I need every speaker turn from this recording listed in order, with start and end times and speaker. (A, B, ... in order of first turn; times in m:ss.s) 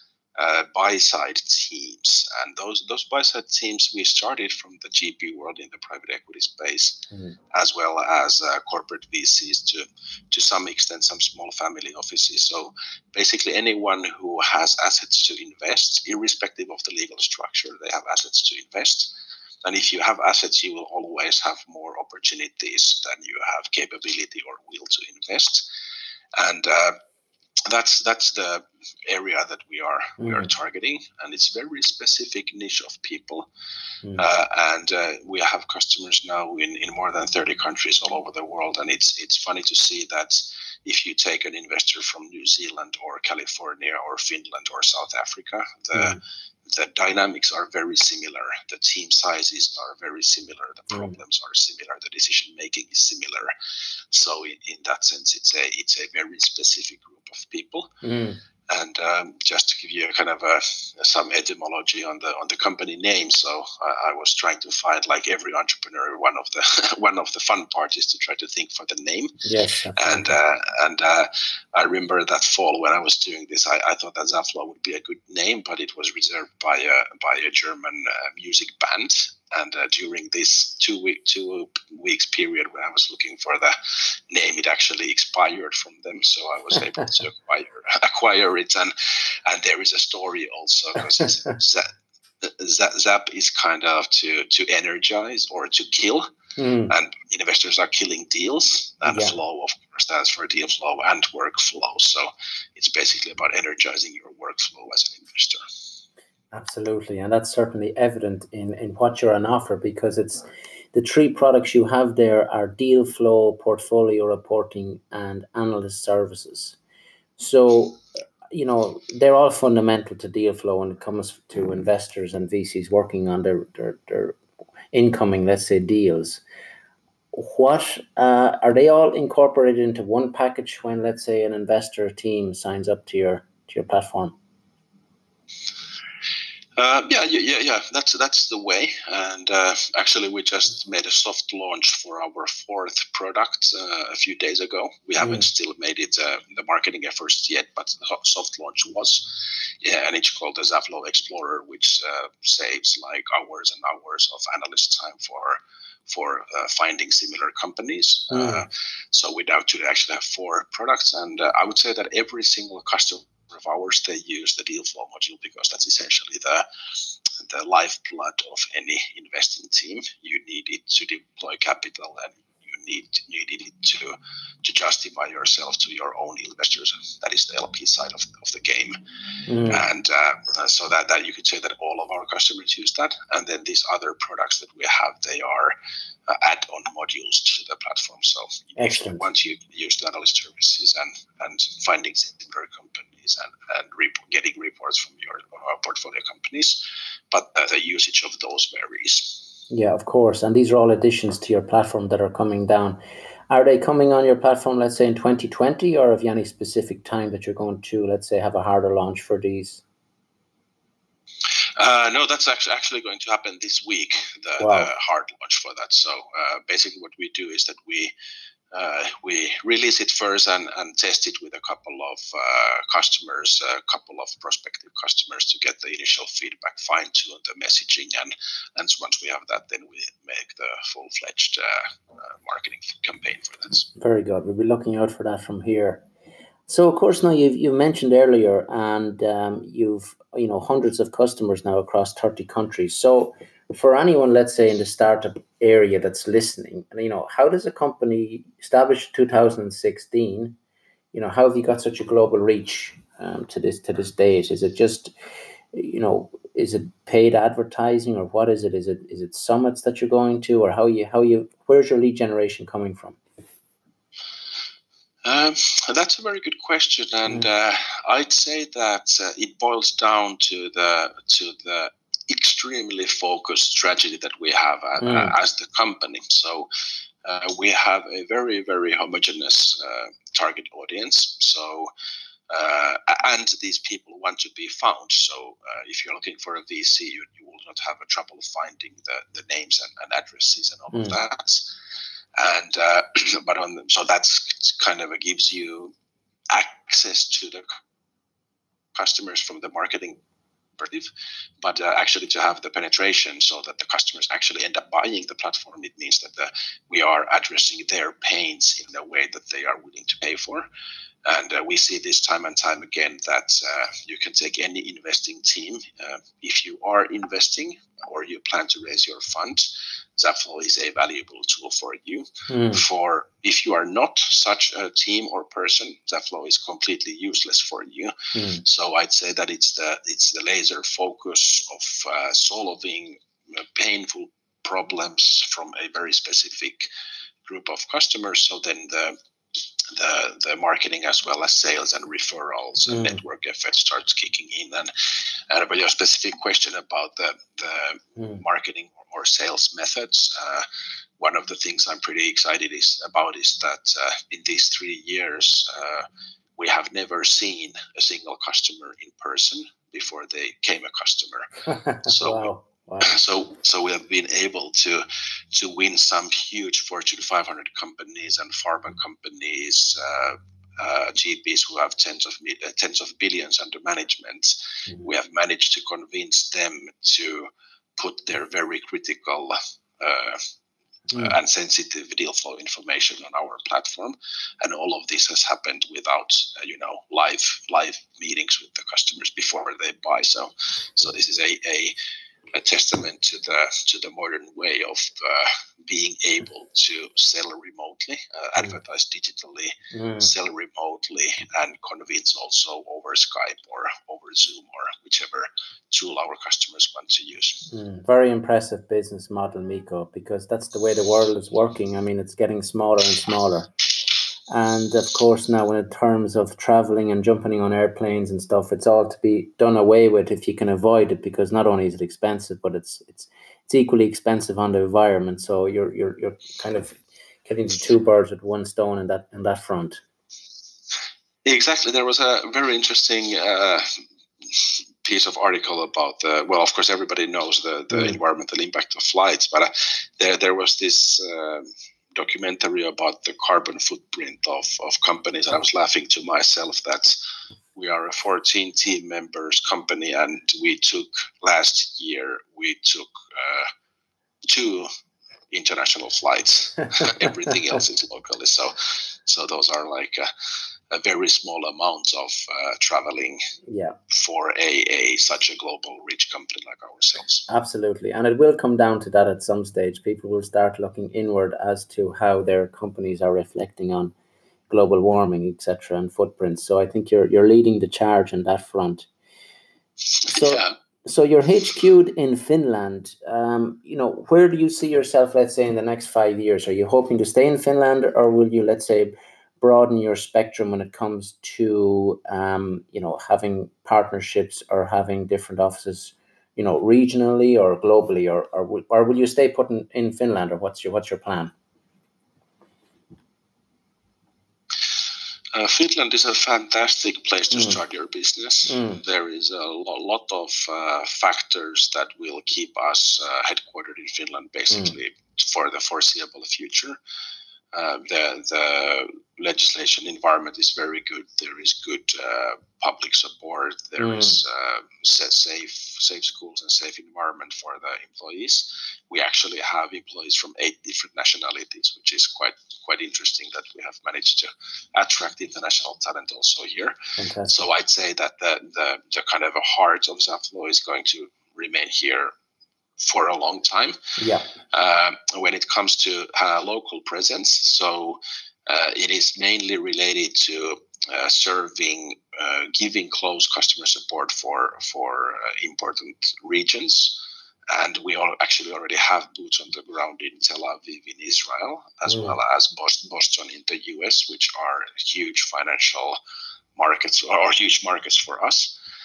0:00.4-0:25.6 A
0:26.4-0:27.0 A
0:27.7-0:33.5 A
0:30.2-0:30.5 B
0:34.2-0:53.5 A
0:45.9-0:46.2 B
0:54.1-0:57.9 A
0:58.0-0:58.4 B
0:58.7-1:09.4 A
1:09.4-1:10.3 B
1:10.0-1:31.9 A
1:32.4-1:36.3 A
1:36.6-1:37.0 B
1:36.9-1:45.6 A
1:39.1-1:39.4 B
1:46.5-1:56.8 B
1:57.4-2:04.4 B
2:04.9-2:06.4 B
2:07.3-2:14.4 B
2:16.8-2:46.7 A
2:38.3-2:38.7 B
2:47.3-2:59.0 A
2:59.5-2:59.8 B
2:59.7-3:05.8 A
3:06.3-3:19.4 A
3:08.8-3:09.3 B
3:19.7-3:29.8 B
3:31.8-3:38.1 A
3:34.6-3:34.9 B
3:38.7-3:53.9 A
3:54.0-3:56.0 B
3:56.7-4:10.6 B
4:11.1-4:15.1 B
4:15.7-4:23.2 B
4:25.2-4:36.7 A
4:35.0-4:35.4 B
4:37.2-4:41.9 A
4:42.5-4:51.7 A
4:50.9-4:51.2 B
4:52.4-4:55.9 A
4:56.5-4:57.7 A
4:59.0-5:00.2 A
5:00.8-5:10.7 A
5:11.2-5:36.9 A
5:22.5-5:22.8 B
5:28.3-5:28.6 B
5:37.4-5:39.2 A
5:39.8-5:44.9 A
5:42.9-5:43.2 B
5:45.5-5:50.7 A
5:48.2-5:48.4 B
5:51.2-6:01.5 A
6:01.7-6:03.2 B
6:02.1-6:20.4 A
6:21.2-6:32.0 A
6:32.5-6:47.7 A
6:39.9-6:40.3 B
6:47.7-6:53.7 B
6:54.5-7:10.0 B
7:11.4-7:13.9 A
7:14.5-7:27.2 A
7:17.9-7:18.2 B
7:27.8-7:33.7 A
7:34.4-7:34.9 A
7:35.5-7:40.3 A
7:40.9-7:43.4 A
7:43.7-7:44.0 B
7:44.1-7:47.5 A
7:47.5-7:54.1 B
7:54.7-7:59.1 B
8:00.2-8:00.7 A
8:00.2-8:21.5 B
8:25.5-8:37.0 A
8:28.7-8:29.0 B
8:37.7-9:02.3 A
8:44.0-8:44.4 B
8:57.2-8:57.5 B
9:03.0-9:04.0 A
9:04.2-9:04.5 B
9:04.7-9:26.2 A
9:22.1-9:22.4 B
9:26.8-9:28.8 A